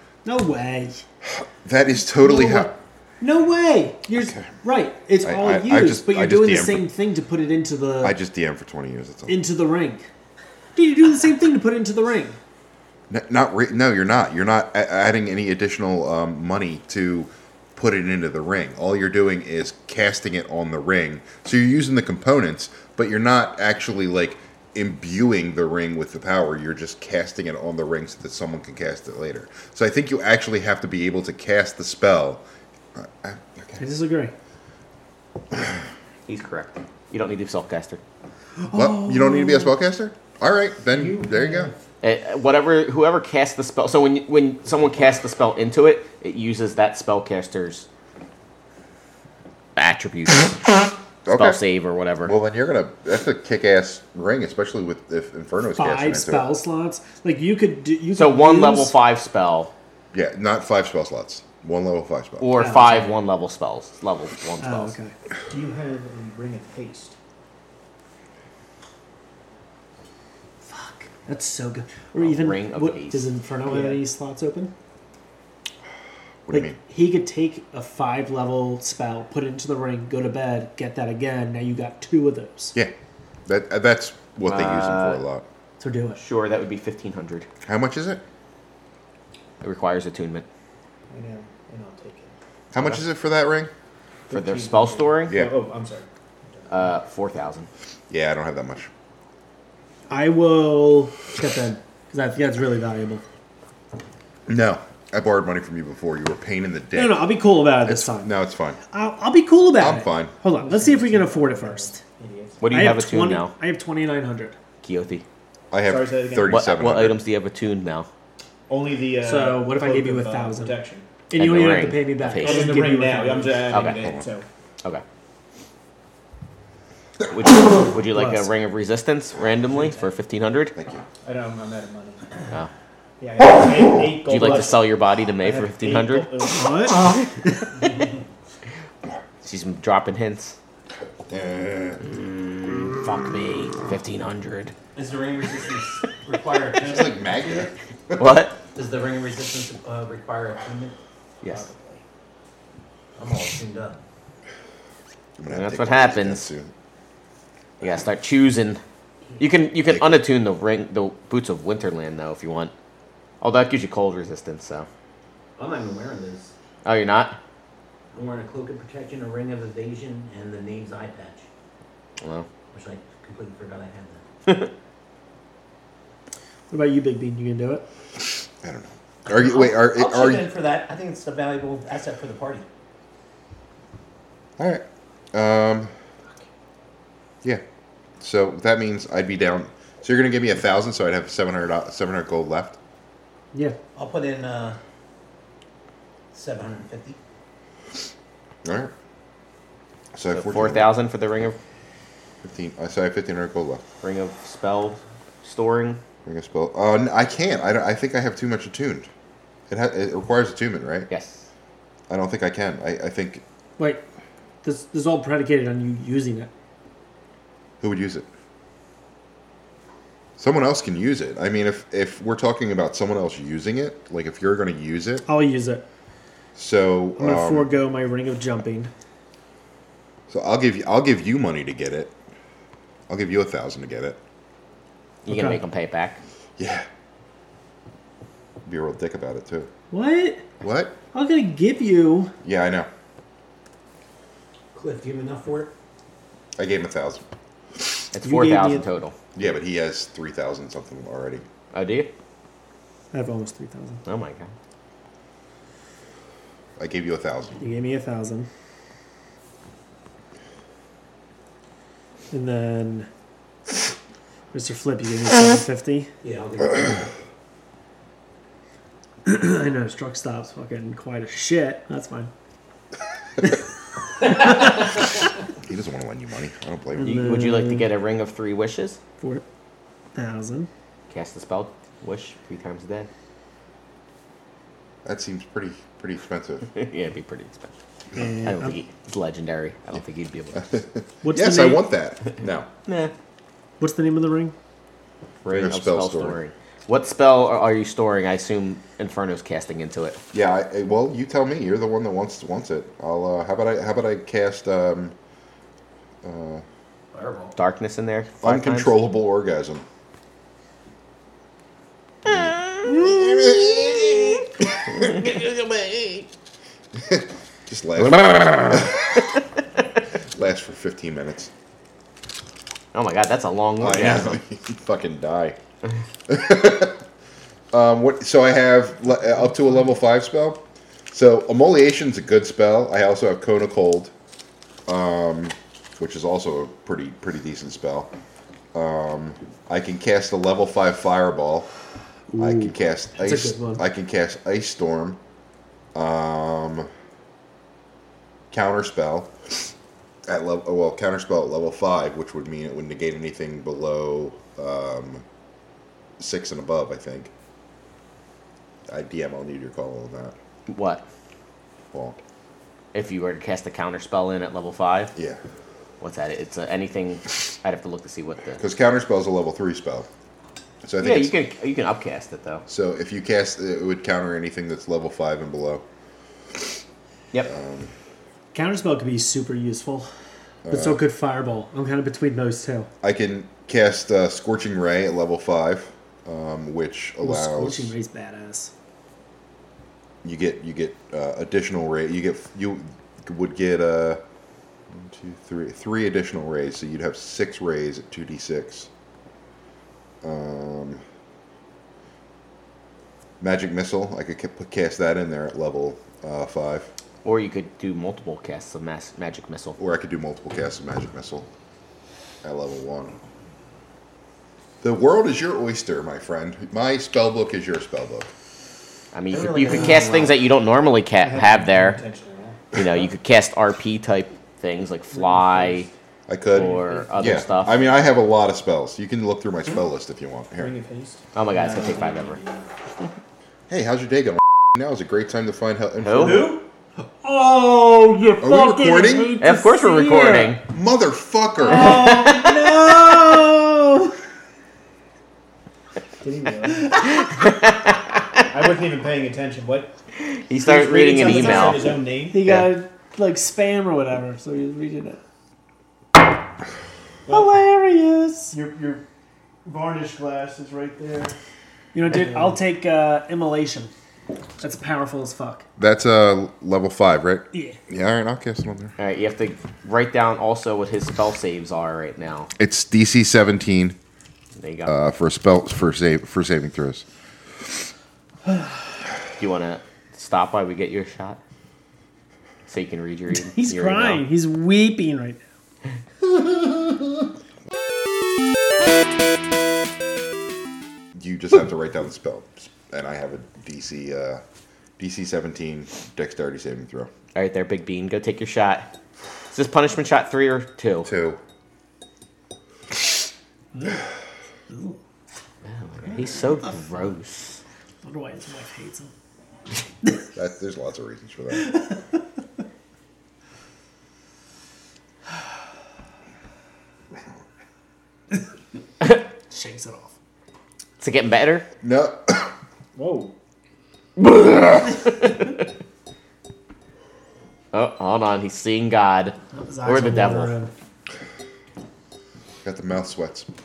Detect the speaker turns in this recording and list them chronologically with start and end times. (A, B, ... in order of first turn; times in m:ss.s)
0:00.2-0:01.0 A
0:01.2-0:02.8 B
0:02.2-0:08.2 A
0:05.2-0:06.9 B
0:08.0-0:09.4 B
0:09.3-0:10.1 A
0:10.7-0:12.4 A
0:13.1-0:32.4 B
0:32.9-0:33.8 B
0:33.8-0:34.3 A
0:36.3-0:38.0 C
0:38.6-0:39.7 A
0:38.7-0:41.7 B
0:42.0-0:47.8 C
0:49.8-0:50.6 C
0:51.2-0:51.6 B
0:51.3-0:52.3 C
0:52.2-0:56.5 B
0:55.8-0:58.9 A
0:58.1-0:59.7 C
1:00.1-1:02.5 B
1:02.4-1:05.0 C
1:02.6-1:03.1 A
1:04.6-1:05.1 A
1:05.5-1:07.2 D
1:10.7-1:14.7 A
1:12.2-1:13.2 C
1:13.6-1:14.0 D
1:16.4-1:16.8 B
1:16.5-1:22.7 A
1:23.4-1:25.4 B
1:24.4-1:25.2 C
1:25.8-1:26.2 A
1:26.2-1:27.5 C
1:27.6-1:28.2 B
1:29.6-1:30.4 C
1:31.1-1:32.3 D
1:32.7-1:33.7 B
1:34.3-1:35.4 C
1:34.3-1:36.8 D
1:35.3-1:35.5 B
1:36.7-1:37.7 C
1:38.1-1:38.9 B
1:40.1-1:43.2 A
1:44.5-1:48.8 B
1:46.9-1:48.3 A
1:48.9-1:52.0 A
1:49.8-1:50.3 B
1:50.5-1:52.6 D
1:52.6-1:53.5 C
1:52.7-1:54.6 A
1:54.8-1:55.2 C
1:55.7-1:57.2 B
1:55.8-1:56.6 D
1:56.4-1:58.1 C
1:58.7-2:01.1 D
1:59.2-2:00.8 A
2:01.3-2:03.7 A
2:01.4-2:02.8 C
2:02.4-2:04.4 D
2:03.7-2:04.0 C
2:03.9-2:04.3 B
2:07.3-2:10.7 C
2:08.1-2:08.5 A
2:10.8-2:11.0 B
2:11.2-2:12.4 D
2:13.2-2:16.7 D
2:14.2-2:16.3 C
2:16.4-2:17.6 A
2:17.8-2:18.2 E
2:19.4-2:20.6 C
2:21.2-2:22.1 B
2:22.1-2:24.7 C
2:24.9-2:27.7 E
2:26.8-2:28.2 B
2:28.2-2:28.6 C
2:28.7-2:32.0 E
2:33.2-2:34.0 E
2:35.4-2:36.7 B
2:35.5-2:36.5 C
2:37.8-2:38.8 C
2:39.4-2:42.7 C
2:43.4-2:44.9 C
2:45.6-2:46.5 E
2:46.8-2:47.4 C
2:48.1-2:51.4 E
2:52.2-2:52.5 C
2:52.7-2:54.2 E
2:56.7-2:57.8 A
2:58.6-3:00.5 B
2:59.3-3:02.6 E
3:04.6-3:05.9 B
3:08.2-3:12.8 B
3:14.0-3:14.8 E
3:16.3-3:17.2 E
3:18.6-3:18.9 B
3:20.1-3:20.9 B
3:20.3-3:21.6 C
3:22.4-3:23.8 B
3:24.0-3:26.0 C
3:26.2-3:29.1 B
3:29.7-3:31.1 B
3:31.1-3:31.5 C
3:32.1-3:33.4 B
3:33.8-3:34.0 A
3:34.6-3:36.5 A
3:37.8-3:38.3 B
3:40.4-3:45.2 B
3:45.2-3:45.8 A
3:46.5-3:47.7 B
3:47.2-3:48.9 A
3:50.3-3:52.1 B
3:53.1-3:54.2 B
3:55.2-3:56.2 C
3:55.3-3:55.6 A
3:56.6-3:56.9 B
3:58.6-3:59.7 B
3:59.9-4:00.4 A
4:00.6-4:01.0 B
4:01.1-4:02.3 A
4:02.4-4:02.9 B
4:04.7-4:05.7 E
4:06.6-4:07.2 B
4:08.1-4:09.1 C
4:08.2-4:08.8 A
4:09.3-4:11.4 B
4:11.7-4:12.1 C
4:13.1-4:14.0 A
4:14.0-4:14.5 C
4:16.8-4:17.6 B
4:17.6-4:18.5 A
4:22.3-4:23.1 A
4:24.5-4:26.1 A
4:26.2-4:27.1 E
4:29.2-4:32.3 A
4:34.2-4:34.8 A
4:35.6-4:37.3 B
4:37.0-4:37.9 A
4:37.0-4:39.0 C
4:39.2-4:39.4 A
4:40.1-4:40.7 A
4:41.1-4:43.1 C
4:45.0-4:46.7 B
4:46.7-4:47.7 C
4:48.1-4:48.8 A
4:48.4-4:50.7 C
4:50.6-4:52.7 B
4:51.2-4:51.8 A
4:52.8-4:53.1 C
4:53.8-4:54.5 A
4:55.4-5:00.2 C
4:55.5-4:56.4 B
5:00.3-5:05.1 B
5:06.2-5:06.6 B
5:07.1-5:07.5 E
5:07.6-5:08.9 C
5:08.4-5:09.8 B
5:12.2-5:14.4 B
5:12.2-5:14.3 C
5:14.9-5:16.2 C
5:16.9-5:19.2 B
5:18.0-5:19.0 C
5:20.3-5:21.5 B
5:22.9-5:24.4 C
5:23.8-5:25.6 B
5:26.3-5:27.0 B
5:27.7-5:34.1 B
5:34.9-5:38.1 B
5:38.7-5:41.7 B
5:42.3-5:43.8 A
5:42.4-5:45.2 B
5:45.9-5:46.9 B
5:48.5-5:49.7 B
5:50.2-5:55.2 B
5:56.2-5:57.3 B
5:58.9-6:00.3 B
6:00.7-6:01.0 C
6:01.9-6:02.2 B
6:02.9-6:05.1 C
6:05.2-6:05.4 B
6:06.0-6:08.6 C
6:08.6-6:10.1 B
6:10.8-6:11.3 B
6:11.0-6:12.6 C
6:12.7-6:15.8 B
6:17.4-6:17.9 B
6:18.5-6:20.1 A
6:20.6-6:21.0 B
6:20.7-6:22.9 A
6:23.0-6:27.9 B
6:27.2-6:28.7 A
6:30.2-6:34.2 B
6:34.9-6:38.9 B
6:40.2-6:41.0 B
6:43.4-6:46.9 B
6:47.2-6:49.8 C
6:49.8-6:51.5 B
6:52.4-6:53.2 B
6:54.8-6:58.3 B
6:59.1-7:02.0 C
6:59.3-7:00.4 E
7:01.2-7:02.7 D
7:02.7-7:05.9 C
7:05.2-7:05.8 D
7:06.3-7:10.8 B
7:06.5-7:07.8 C
7:10.5-7:12.7 D
7:11.3-7:12.4 C
7:13.7-7:16.6 B
7:16.0-7:16.5 C
7:16.2-7:16.6 D
7:17.2-7:20.6 A
7:18.4-7:19.4 B
7:19.4-7:20.6 C
7:20.7-7:22.0 B
7:21.6-7:24.2 A
7:21.7-7:22.9 C
7:26.2-7:27.0 D
7:27.1-7:28.4 C
7:28.4-7:29.9 D
7:30.2-7:32.7 C
7:30.6-7:32.4 D
7:31.3-7:35.2 A
7:37.2-7:37.5 D
7:37.3-7:38.5 A
7:38.5-7:39.0 D
7:39.6-7:41.3 D
7:41.9-7:43.9 A
7:42.1-7:42.5 D
7:44.6-7:45.6 A
7:45.8-7:48.9 B
7:47.5-7:47.8 A
7:49.0-7:52.5 C
7:52.6-7:54.0 B
7:54.6-7:54.9 C
7:54.8-7:57.0 B
7:59.4-8:01.4 C
8:02.7-8:04.2 C
8:03.3-8:05.4 A
8:11.1-8:14.4 B
8:15.0-8:17.1 B
8:17.3-8:18.9 C
8:19.5-8:21.1 C
8:21.0-8:21.4 B
8:24.7-8:25.0 A
8:25.6-8:27.6 C
8:28.0-8:29.1 A
8:30.3-8:31.9 B
8:39.5-8:40.1 A
8:41.0-8:41.7 C
8:41.8-8:42.5 B
8:42.9-8:43.3 D
8:44.2-8:45.6 C
8:47.7-8:50.5 C
8:49.5-8:50.7 A
8:52.6-8:53.5 B